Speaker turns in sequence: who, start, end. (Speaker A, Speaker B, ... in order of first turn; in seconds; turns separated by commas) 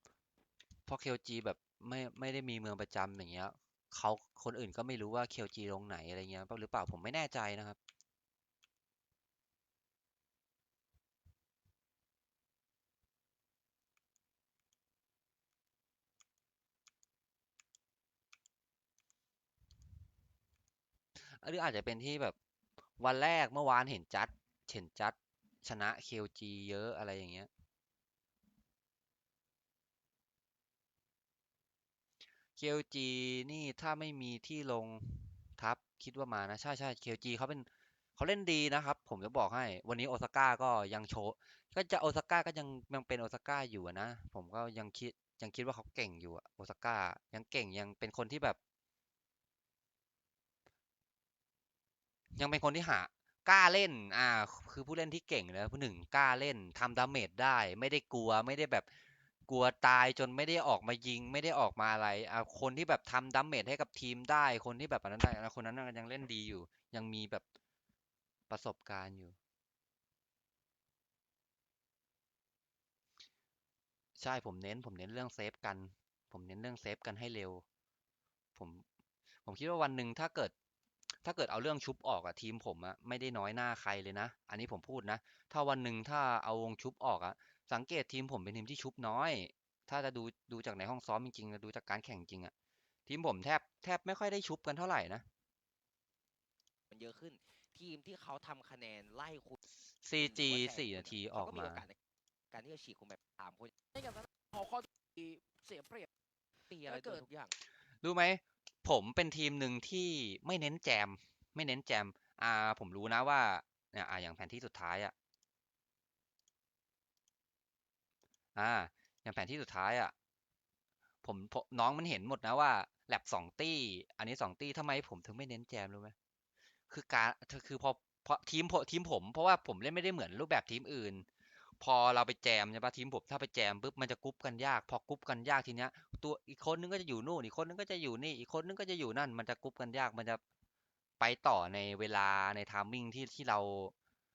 Speaker A: 0.9-7.8, Speaker A: 21.1-22.4, Speaker A: 23.0-27.5, Speaker A: 32.5-48.6, Speaker A: 52.4-58.9, Speaker A: 59.5-67.4, Speaker A: 68.5-69.4, Speaker A: 74.2-77.6, Speaker A: 78.5-78.8, Speaker A: 79.4-80.5, Speaker A: 81.2-92.5, Speaker A: 93.1-95.2, Speaker B: 96.9-99.5, Speaker A: 100.0-101.8, Speaker B: 100.2-102.0, Speaker B: 102.5-103.7, Speaker C: 104.0-106.1, Speaker B: 106.7-107.5, Speaker A: 108.0-115.1, Speaker A: 118.5-120.1, Speaker A: 121.2-126.1, Speaker A: 126.9-131.3, Speaker A: 131.8-140.4, Speaker A: 141.2-143.9